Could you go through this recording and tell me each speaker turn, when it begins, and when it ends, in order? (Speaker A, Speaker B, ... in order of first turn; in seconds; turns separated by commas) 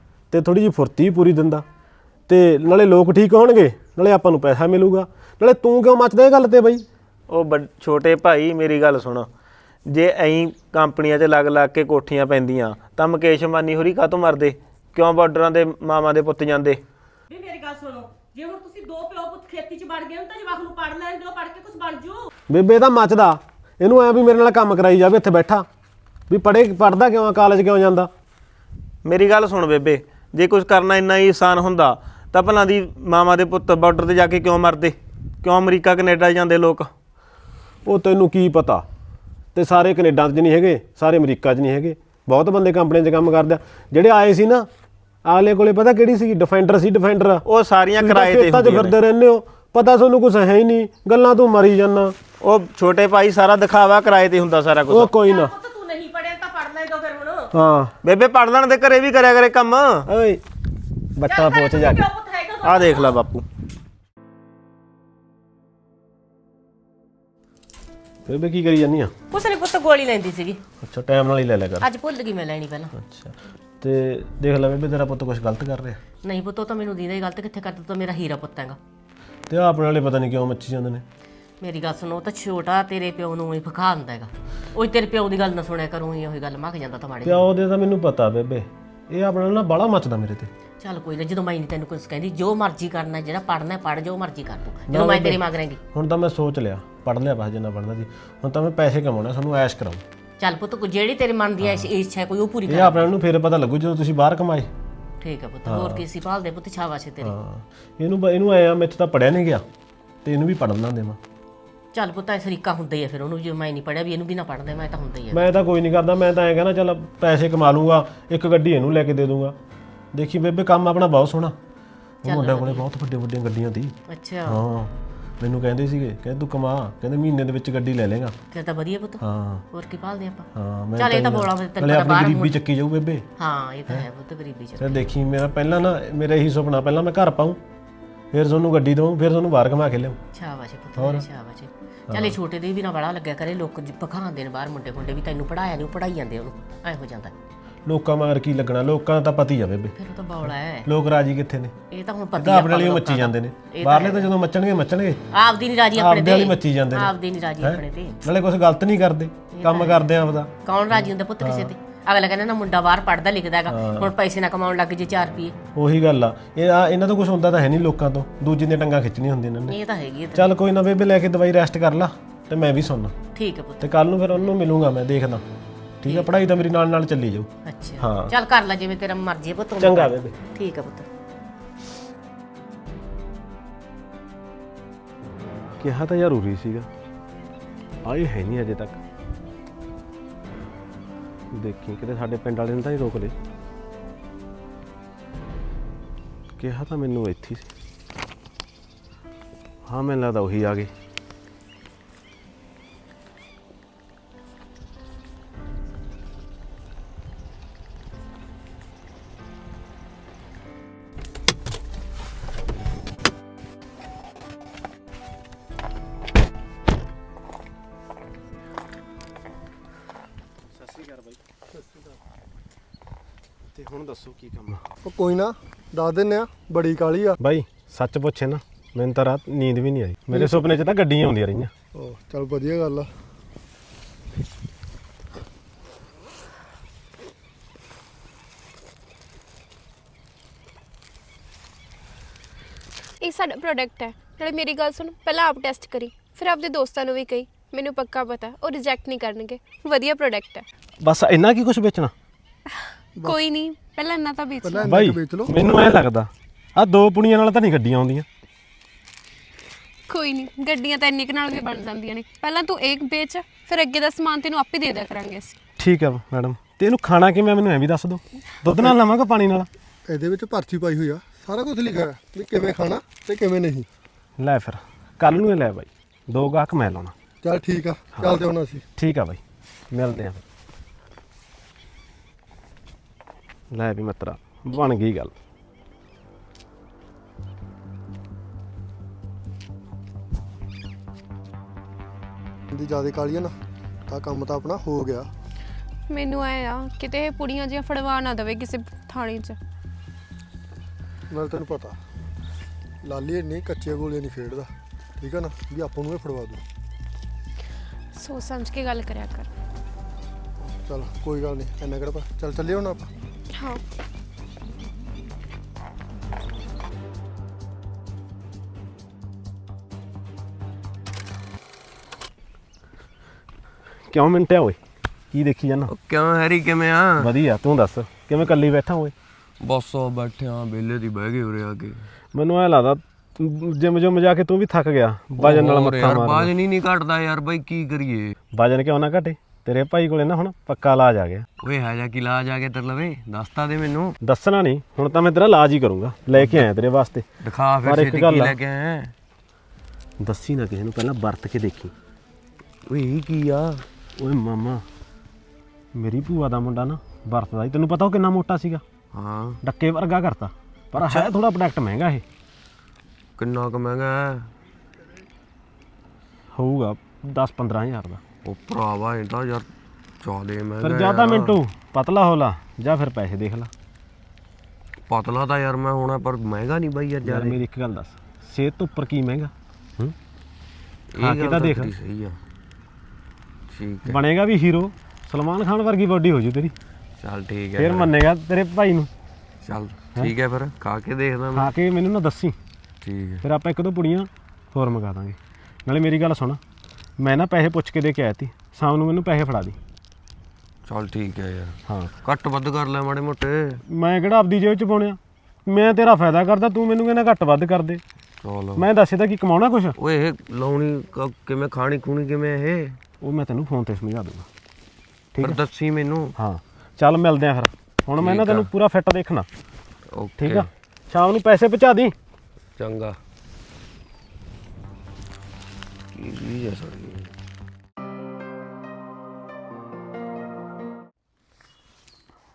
Speaker A: 0.3-1.6, Speaker A: 2.3-6.9, Speaker B: 7.3-9.3, Speaker B: 9.9-16.8, Speaker C: 17.3-22.3, Speaker A: 22.5-25.7, Speaker A: 26.3-28.1, Speaker B: 29.1-36.9, Speaker A: 37.9-38.9, Speaker A: 39.5-44.7, Speaker A: 45.2-47.4, Speaker B: 47.5-49.0, Speaker A: 48.0-52.2, Speaker B: 52.4-55.1, Speaker A: 54.9-55.5, Speaker C: 55.3-57.5, Speaker A: 57.5-57.9, Speaker B: 58.0-60.1, Speaker A: 60.1-60.4, Speaker A: 61.2-62.0, Speaker C: 61.3-63.1, Speaker B: 62.6-63.5, Speaker A: 68.3-69.1, Speaker C: 69.3-70.6, Speaker A: 70.8-71.9, Speaker C: 71.8-72.9, Speaker A: 73.0-76.0, Speaker C: 76.2-78.8, Speaker A: 79.5-81.0, Speaker C: 81.6-87.5, Speaker A: 87.2-90.5, Speaker C: 90.8-95.8, Speaker A: 94.9-100.0, Speaker C: 100.4-103.1, Speaker A: 101.6-101.9, Speaker A: 102.7-104.7, Speaker C: 105.2-107.4, Speaker A: 105.7-106.1, Speaker A: 107.2-109.7, Speaker A: 110.2-111.2, Speaker C: 111.9-115.5, Speaker A: 115.3-119.6, Speaker A: 120.1-121.6, Speaker A: 122.2-123.9, Speaker C: 122.2-122.9, Speaker C: 124.1-124.6, Speaker A: 124.5-128.4, Speaker C: 128.5-132.6, Speaker A: 129.2-129.7, Speaker A: 130.5-133.3, Speaker C: 133.4-135.1, Speaker A: 134.8-137.6, Speaker A: 138.3-140.2, Speaker C: 140.3-147.3, Speaker A: 141.0-141.3, Speaker A: 142.1-142.4, Speaker A: 147.9-149.9, Speaker C: 149.9-150.9, Speaker A: 150.4-151.7, Speaker C: 151.9-154.3, Speaker A: 152.4-155.2, Speaker C: 155.3-158.2, Speaker A: 155.9-161.7, Speaker C: 159.5-160.1, Speaker C: 160.7-165.6, Speaker A: 163.7-164.1, Speaker A: 165.8-169.8, Speaker C: 169.7-170.5, Speaker A: 170.3-173.2, Speaker C: 173.3-173.8, Speaker A: 173.8-175.4, Speaker A: 176.0-178.3, Speaker C: 176.1-176.3, Speaker C: 177.7-181.1, Speaker A: 179.8-180.3, Speaker A: 185.8-186.9, Speaker A: 188.0-189.0, Speaker A: 191.5-193.3, Speaker A: 196.6-197.7, Speaker A: 199.9-200.9, Speaker A: 220.7-221.4, Speaker D: 221.7-222.1, Speaker A: 223.7-224.8, Speaker D: 225.0-227.4, Speaker A: 227.4-231.7, Speaker D: 230.3-230.8, Speaker D: 231.9-233.1, Speaker E: 243.2-250.6, Speaker A: 251.0-252.1, Speaker E: 253.2-254.9, Speaker D: 254.6-255.5, Speaker A: 254.8-258.3, Speaker E: 260.1-265.6, Speaker A: 265.8-269.7, Speaker D: 270.1-273.9, Speaker A: 274.4-277.1, Speaker D: 277.4-278.8, Speaker A: 279.0-279.4, Speaker A: 279.9-280.4, Speaker A: 283.7-285.3, Speaker D: 292.7-293.6, Speaker D: 294.1-295.3, Speaker E: 296.1-299.6, Speaker D: 301.3-302.0, Speaker D: 303.0-306.6, Speaker E: 308.1-309.5, Speaker D: 310.6-313.1, Speaker E: 313.6-313.8, Speaker A: 324.1-324.8, Speaker A: 325.3-325.9, Speaker F: 325.9-327.3, Speaker A: 327.2-329.1, Speaker F: 329.6-332.1, Speaker A: 332.3-336.5, Speaker F: 335.4-338.4, Speaker A: 338.5-341.5, Speaker F: 341.6-344.2, Speaker A: 344.2-347.3, Speaker F: 346.4-346.6, Speaker F: 347.4-349.1, Speaker A: 347.8-348.6, Speaker A: 350.2-351.9, Speaker F: 352.9-353.8, Speaker A: 354.2-354.9, Speaker A: 355.9-358.8, Speaker F: 359.1-359.6, Speaker A: 359.6-362.2, Speaker F: 363.4-364.5, Speaker A: 366.5-368.2, Speaker F: 368.4-369.7, Speaker F: 370.2-371.6, Speaker A: 370.8-373.7, Speaker F: 375.1-377.6, Speaker A: 377.2-380.1, Speaker F: 381.1-382.4, Speaker A: 381.2-381.9, Speaker F: 383.7-384.2, Speaker A: 384.1-386.7, Speaker F: 387.2-388.1, Speaker A: 387.8-389.1, Speaker F: 389.6-391.7, Speaker A: 391.5-392.6, Speaker F: 393.0-393.4, Speaker A: 393.4-396.6, Speaker A: 397.2-399.8, Speaker F: 400.9-403.8, Speaker A: 401.9-402.1, Speaker A: 403.9-408.0, Speaker F: 408.4-408.9, Speaker A: 408.8-410.0, Speaker F: 410.0-413.0, Speaker A: 413.2-414.5, Speaker A: 415.3-415.6, Speaker F: 415.4-416.3, Speaker A: 416.4-419.5, Speaker F: 418.2-418.7, Speaker F: 420.1-420.7, Speaker A: 420.4-422.1, Speaker F: 422.8-423.1, Speaker F: 426.1-427.3